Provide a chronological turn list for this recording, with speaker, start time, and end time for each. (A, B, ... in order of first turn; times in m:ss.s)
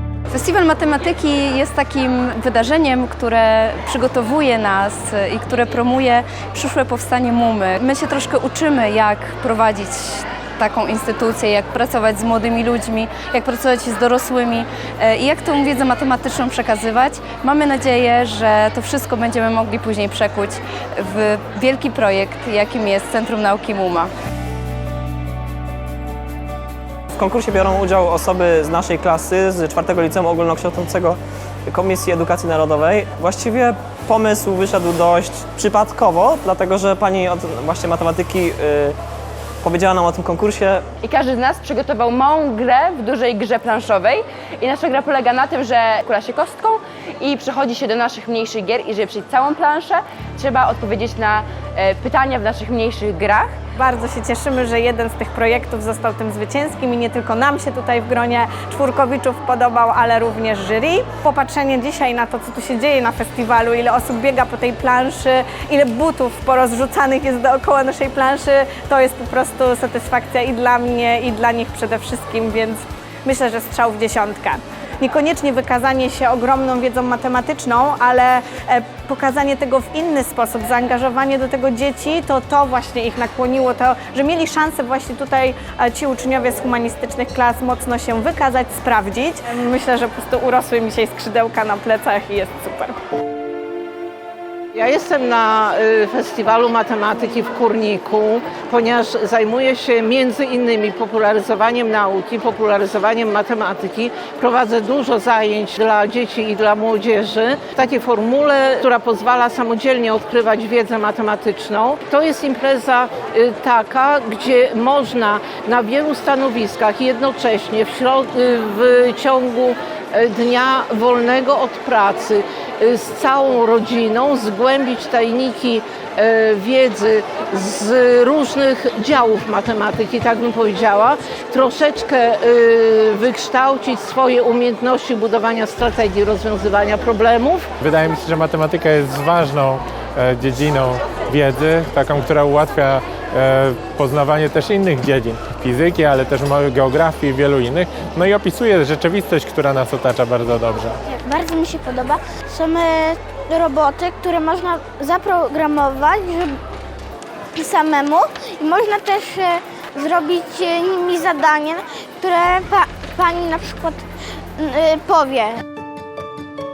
0:00.3-0:24.1 A
0:27.1-0:39.0 B
0:39.6-0:40.9 B
0:41.0-0:53.4 C
0:53.8-1:33.0 D
1:34.8-2:17.7 E
2:17.8-2:31.0 F
2:31.2-2:36.6 G
2:37.6-2:44.0 G
2:44.6-2:45.6 G